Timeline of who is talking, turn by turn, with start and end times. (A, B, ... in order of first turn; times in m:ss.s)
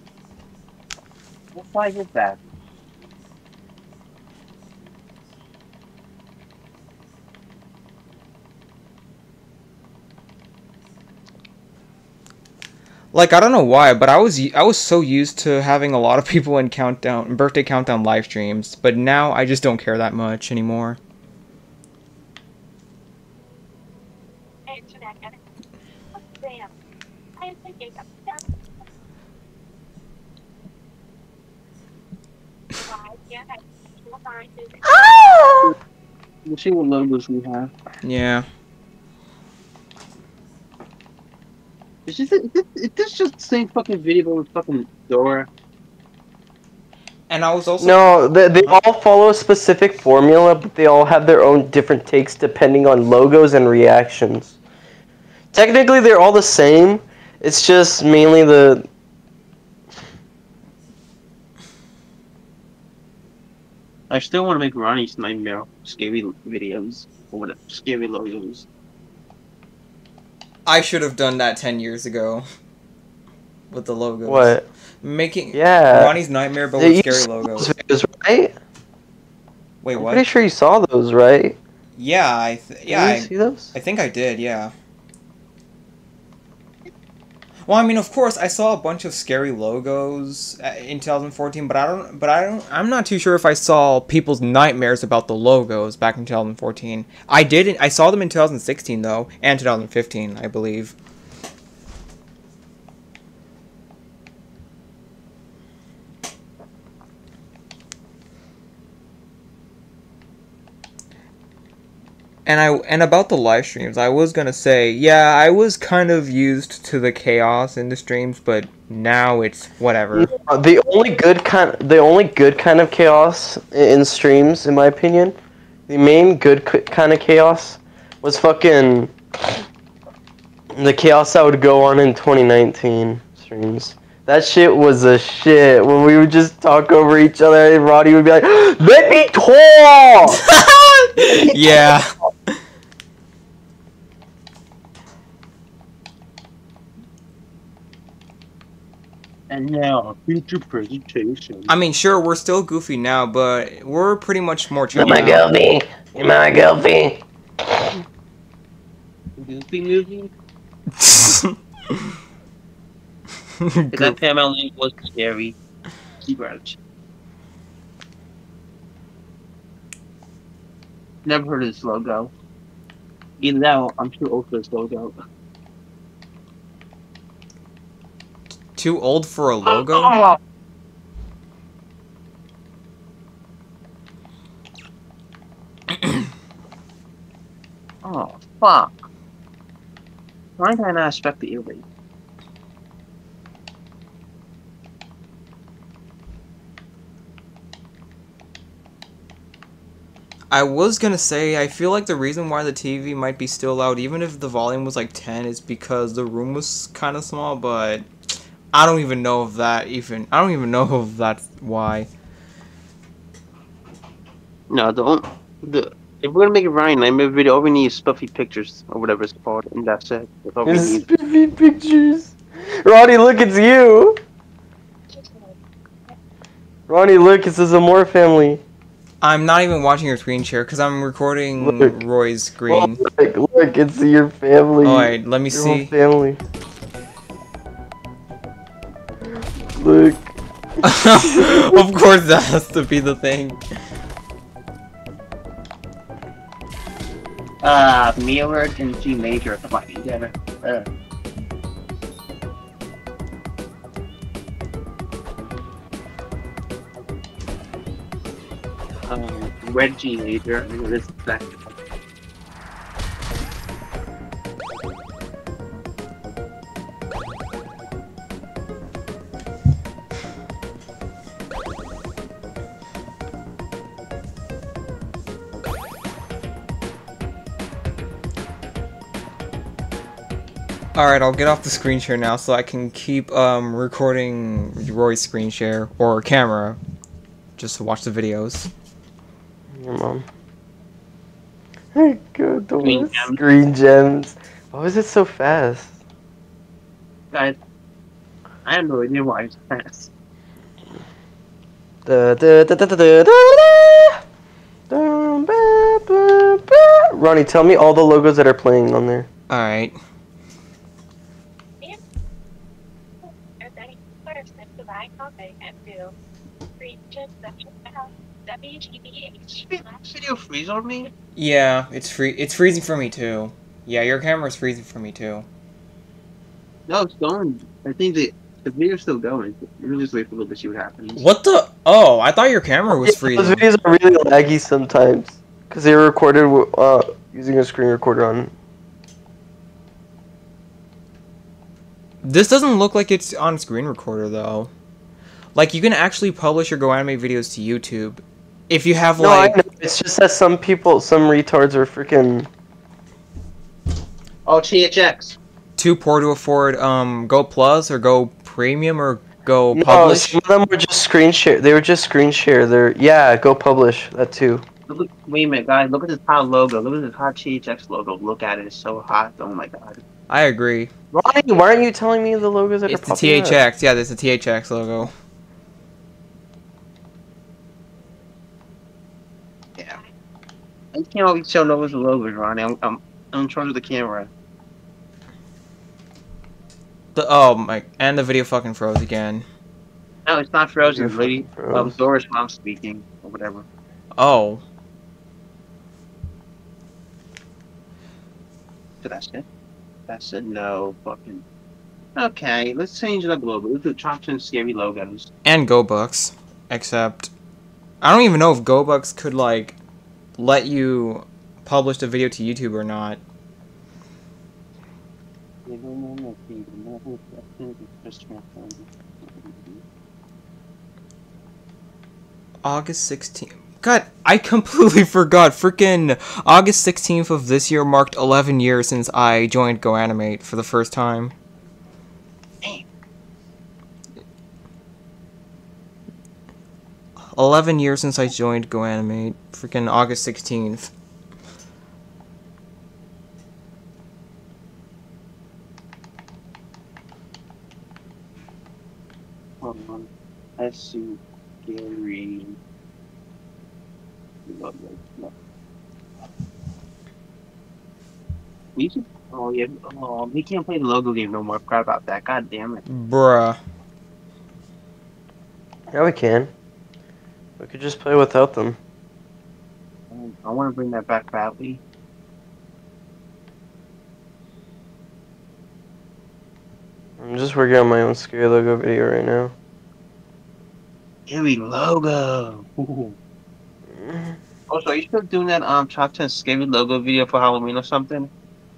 0:01.5-0:02.4 A
0:13.1-0:21.0 B
0:24.7-0:25.4 C
0:26.1-0:26.7 C
0:27.4-0:28.5 C
0:32.7-0:35.0 C
0:34.8-0:35.7 D
0:36.4-0:37.7 A
0:38.0-0:38.5 B
0:42.1-0:45.5 A
0:47.3-0:48.8 B
0:47.8-0:54.6 D
0:55.5-0:58.9 D
1:04.1-1:08.6 A
1:10.6-1:12.4 B
1:13.7-1:17.7 B
1:14.2-1:14.6 D
1:15.5-1:16.2 D
1:16.8-1:18.5 D
1:19.8-1:20.2 B
1:19.9-1:21.6 D
1:22.0-1:24.7 B
1:22.9-1:23.7 D
1:27.6-1:40.9 B
1:52.4-2:00.3 B
2:00.1-2:05.4 D
2:05.9-2:09.6 D
2:10.7-2:20.4 D
2:20.4-2:22.1 B
2:21.3-2:21.8 D
2:29.5-2:31.7 A
2:31.7-2:35.4 B
2:34.9-2:38.0 D
2:39.4-2:40.3 A
2:41.0-2:42.1 B
2:43.6-2:44.2 B
2:43.9-2:45.6 A
2:46.2-2:46.8 A
2:51.2-2:52.3 A
2:53.4-2:55.2 A
2:58.8-3:00.2 B
2:59.6-3:00.4 A
3:08.0-3:09.1 A
3:10.6-3:11.8 A
3:20.5-3:28.1 B
3:28.7-3:32.1 B
3:34.7-3:41.0 A
3:40.6-3:44.2 D
3:45.1-3:45.6 C
3:46.9-3:48.6 D
3:49.2-3:53.0 B
3:51.6-3:51.9 D
3:52.7-3:56.4 D
3:54.8-3:55.9 B
3:59.8-4:00.3 D
4:00.8-4:03.6 B
4:01.1-4:01.8 D
4:07.6-4:10.9 A
4:19.1-4:21.6 A
4:40.9-4:46.8 B
4:47.6-4:48.7 B
4:49.7-4:50.2 D
4:51.9-4:56.0 D
4:52.8-4:53.4 A
4:57.3-4:57.6 A
4:58.6-5:00.1 A
5:02.0-5:04.2 D
5:04.9-5:09.3 D
5:09.5-5:10.0 B
5:13.2-5:16.1 C
5:16.8-5:20.1 C
5:19.5-5:21.1 A
5:21.3-5:25.4 B
5:26.9-5:31.2 A
5:31.2-5:33.6 B
5:32.9-5:38.5 D
5:42.2-5:44.7 B
5:45.5-5:49.6 B
5:49.2-5:52.5 D
5:54.4-5:55.4 A
5:55.8-6:00.4 B
5:59.7-6:04.6 D
6:04.9-6:10.0 A
6:10.3-6:10.9 B
6:11.1-6:13.6 D
6:12.9-6:15.1 B
6:20.9-6:24.3 A
6:27.1-6:29.4 B
6:30.2-6:33.6 A
6:30.8-6:32.0 D
6:34.2-6:34.6 B
6:39.0-6:39.4 A
6:40.1-6:41.4 A
6:42.2-6:45.3 A
6:45.4-6:47.3 B
6:48.0-6:49.8 B
6:50.4-6:53.2 B
6:55.6-6:59.8 A
7:02.6-7:11.3 B
7:12.6-7:12.9 A
7:17.3-7:20.9 B
7:29.6-7:32.6 A
7:34.5-7:35.3 A
7:38.8-7:42.8 A
7:42.9-7:43.6 B
7:45.9-7:46.5 D
7:47.6-7:48.8 D
7:50.1-7:51.8 A
7:57.2-7:59.5 D
8:01.3-8:03.2 A
8:03.9-8:04.4 D
8:04.7-8:08.3 A